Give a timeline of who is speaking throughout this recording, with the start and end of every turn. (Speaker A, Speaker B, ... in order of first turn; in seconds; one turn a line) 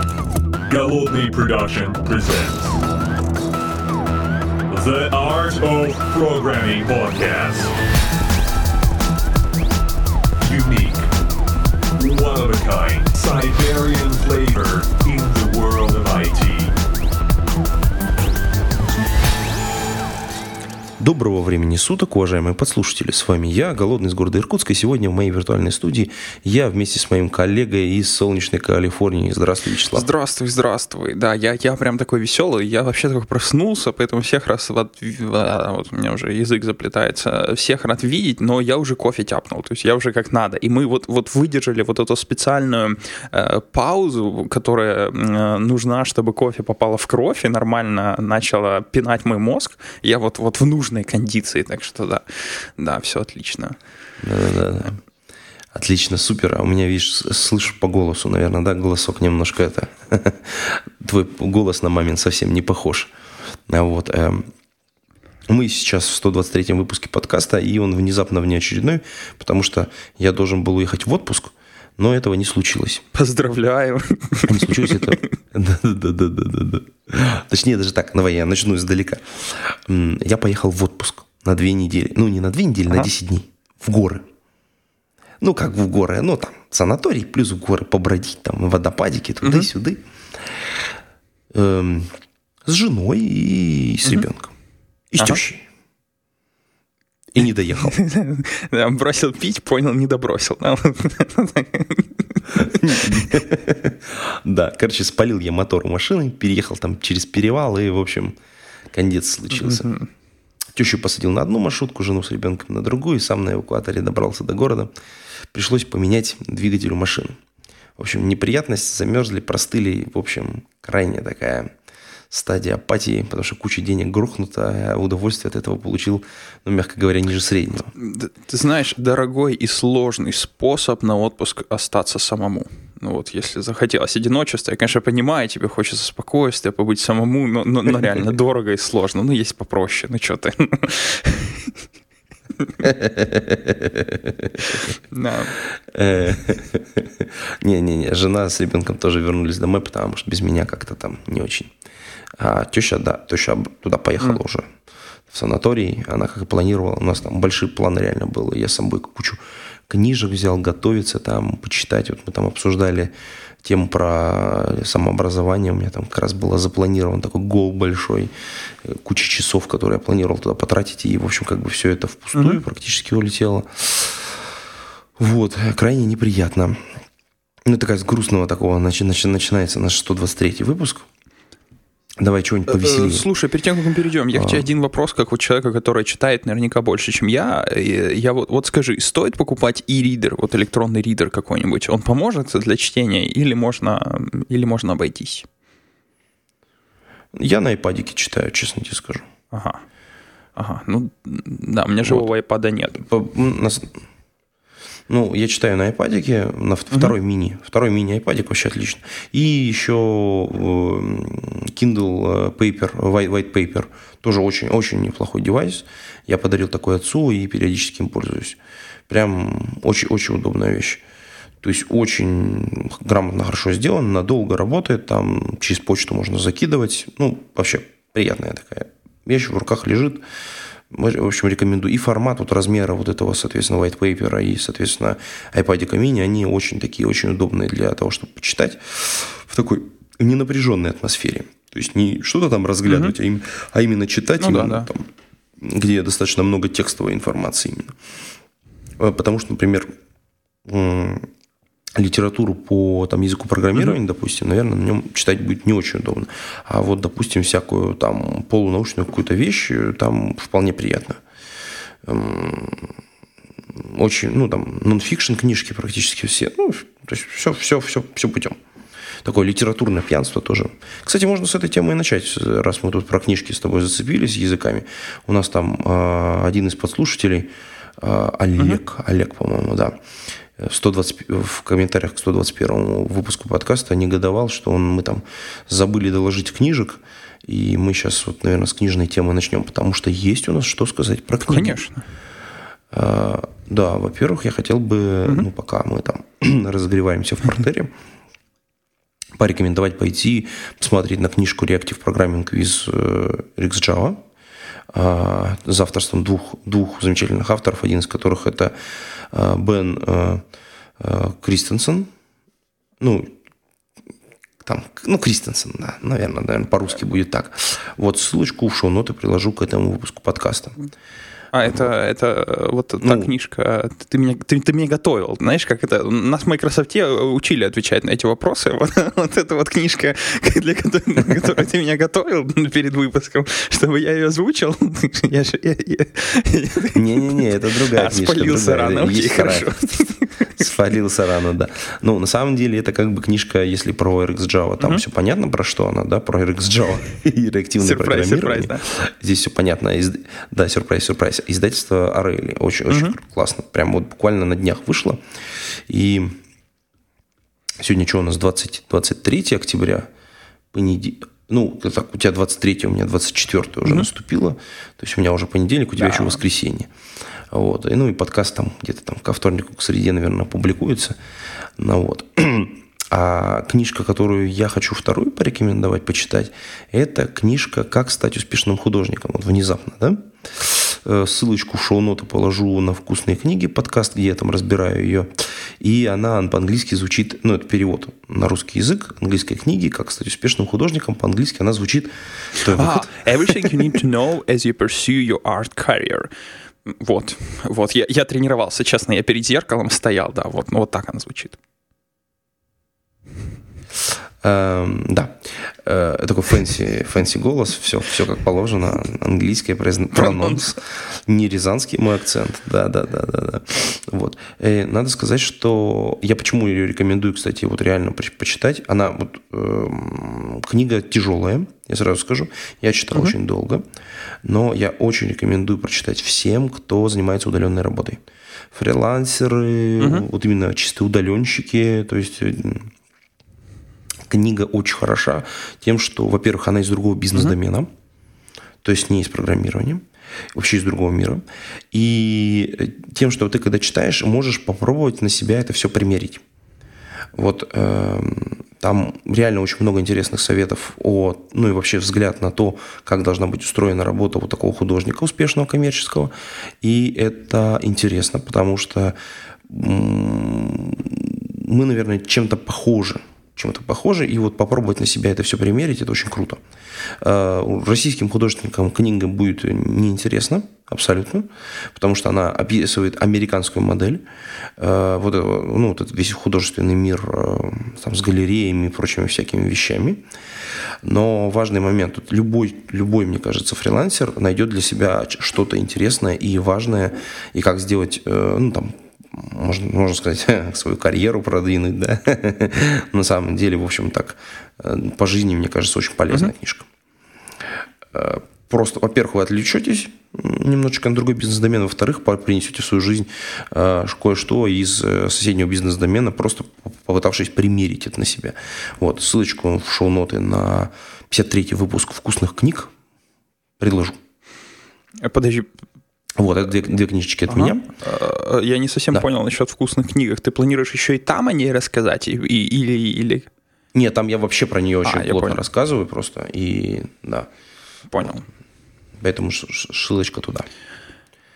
Speaker A: 0.7-2.8
Speaker A: 4.7-7.8
Speaker A: 10.4-11.1
Speaker A: 12.0-16.7
Speaker B: 21.0-30.1
Speaker C: 29.9-53.8
Speaker B: 54.2-55.0
Speaker B: 55.7-63.1
Speaker B: 63.7-64.5
Speaker B: 65.5-73.0
Speaker C: 73.1-75.3
Speaker B: 74.5-84.2
Speaker B: 85.4-90.0
Speaker B: 91.5-92.1
Speaker B: 92.7-94.5
Speaker B: 95.1-95.7
Speaker B: 97.3-98.0
Speaker C: 97.9-103.3
Speaker B: 102.5-108.4
Speaker B: 108.9-109.9
Speaker C: 109.6-110.1
Speaker B: 110.7-114.9
Speaker B: 115.5-117.4
Speaker B: 118.0-121.7
Speaker B: 122.3-127.9
Speaker C: 128.0-141.7
Speaker B: 142.8-144.8
Speaker C: 145.1-145.5
Speaker B: 145.8-151.7
Speaker B: 152.4-154.7
Speaker B: 155.3-163.1
Speaker B: 163.6-168.3
Speaker B: 168.8-174.4
Speaker C: 172.3-172.6
Speaker B: 175.2-176.8
Speaker B: 177.7-181.1
Speaker B: 182.2-183.2
Speaker C: 182.7-195.5
Speaker B: 184.3-184.7
Speaker B: 197.3-199.3
Speaker C: 199.5-199.8
Speaker C: 200.6-203.0
Speaker B: 202.9-204.0
Speaker B: 205.1-221.0
Speaker B: 221.6-230.2
Speaker B: 230.9-247.9
Speaker C: 242.9-243.2
Speaker C: 244.4-244.9
Speaker B: 249.0-249.9
Speaker B: 250.7-251.3
Speaker B: 252.0-261.2
Speaker B: 262.1-262.9
Speaker B: 263.7-268.6
Speaker B: 269.2-280.0
Speaker B: 280.6-291.8
Speaker C: 291.5-292.0
Speaker B: 292.9-297.9
Speaker B: 299.4-304.2
Speaker B: 304.9-308.7
Speaker B: 309.3-310.4
Speaker B: 311.0-312.1
Speaker B: 313.0-313.3
Speaker B: 314.6-320.8
Speaker C: 321.5-340.5
Speaker B: 323.0-323.3
Speaker B: 336.9-339.7
Speaker B: 340.6-355.2
Speaker C: 347.8-348.8
Speaker C: 352.9-353.2
Speaker B: 355.9-356.4
Speaker B: 357.8-360.1
Speaker B: 360.7-366.9
Speaker C: 366.0-366.4
Speaker B: 367.5-371.2
Speaker B: 371.8-393.7
Speaker C: 392.6-396.3
Speaker C: 396.9-401.6
Speaker B: 404.4-423.8
Speaker C: 410.2-410.6
Speaker B: 424.4-428.2
Speaker B: 428.7-432.9
Speaker C: 430.0-430.3
Speaker B: 434.3-437.9
Speaker B: 438.8-446.4
Speaker B: 447.4-459.2
Speaker B: 459.7-466.6
Speaker B: 467.2-474.2
Speaker B: 474.8-480.2
Speaker B: 481.0-496.9
Speaker B: 498.1-512.9
Speaker B: 513.8-514.2
Speaker C: 515.2-515.7
Speaker B: 516.4-517.9
Speaker C: 517.5-523.5
Speaker B: 523.9-527.5
Speaker C: 525.0-525.6
Speaker C: 528.1-528.5
Speaker B: 529.2-530.7